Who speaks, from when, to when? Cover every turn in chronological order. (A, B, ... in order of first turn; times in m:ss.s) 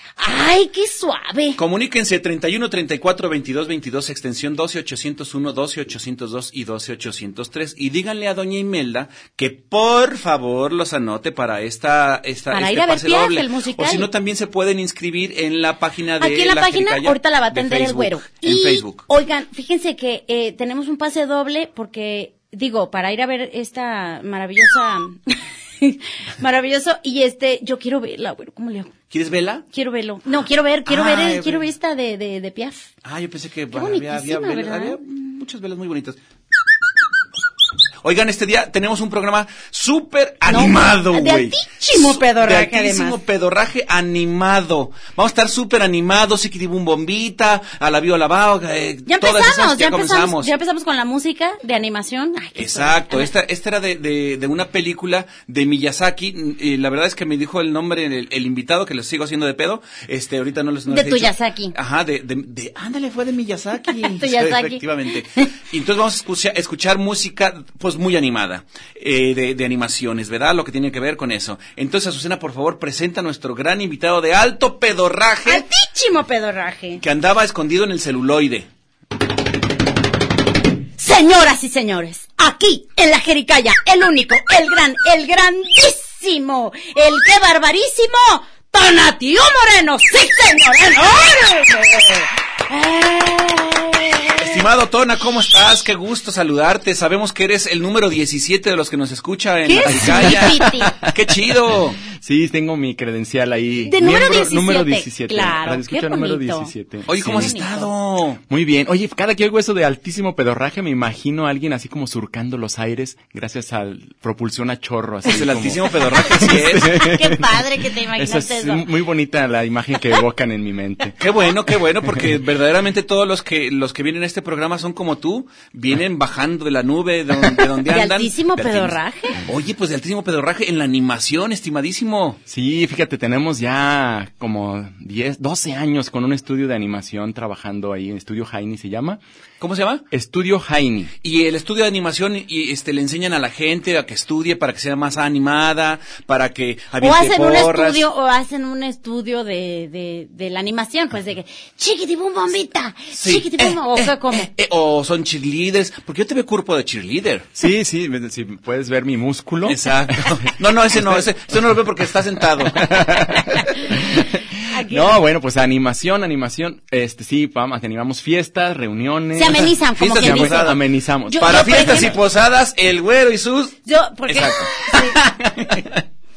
0:00.2-0:01.6 A
0:01.6-0:19.0 B
0:12.5-0:14.1 A
0:16.2-0:28.9 A
0:29.1-0:29.6 B
0:29.7-0:32.9 A
0:30.9-0:31.7 B
0:33.0-0:36.2 B
0:33.7-0:35.0 A
0:38.0-0:50.5 B
0:40.5-0:43.2 A
0:49.0-0:53.3 A
0:52.6-1:15.6 B
1:00.9-1:01.8 A
1:03.9-1:05.5 A
1:15.4-1:17.0 A
1:17.0-1:18.7 B
1:21.0-1:34.6 A
1:34.4-1:42.0 B
1:39.6-1:40.9 A
1:39.8-1:41.1 C
1:41.7-1:47.6 C
1:43.9-1:47.9 A
1:47.1-1:48.4 B
1:48.5-2:01.2 C
1:55.3-1:57.0 B
1:56.1-1:58.9 A
2:01.2-2:12.4 B
2:07.9-2:09.4 A
2:12.5-2:19.2 C
2:19.6-2:20.0 B
2:20.1-2:21.1 C
2:21.2-2:28.0 B
2:27.0-2:34.5 A
2:33.1-2:37.5 B
2:37.6-2:40.4 C
2:39.7-2:42.9 B
2:40.9-2:41.2 C
2:42.7-2:52.2 C
2:43.5-2:43.9 A
2:44.7-2:45.2 A
2:49.3-2:50.8 A
2:50.0-2:50.8 B
2:51.3-2:52.1 A
2:51.4-2:56.0 B
2:53.9-2:55.2 A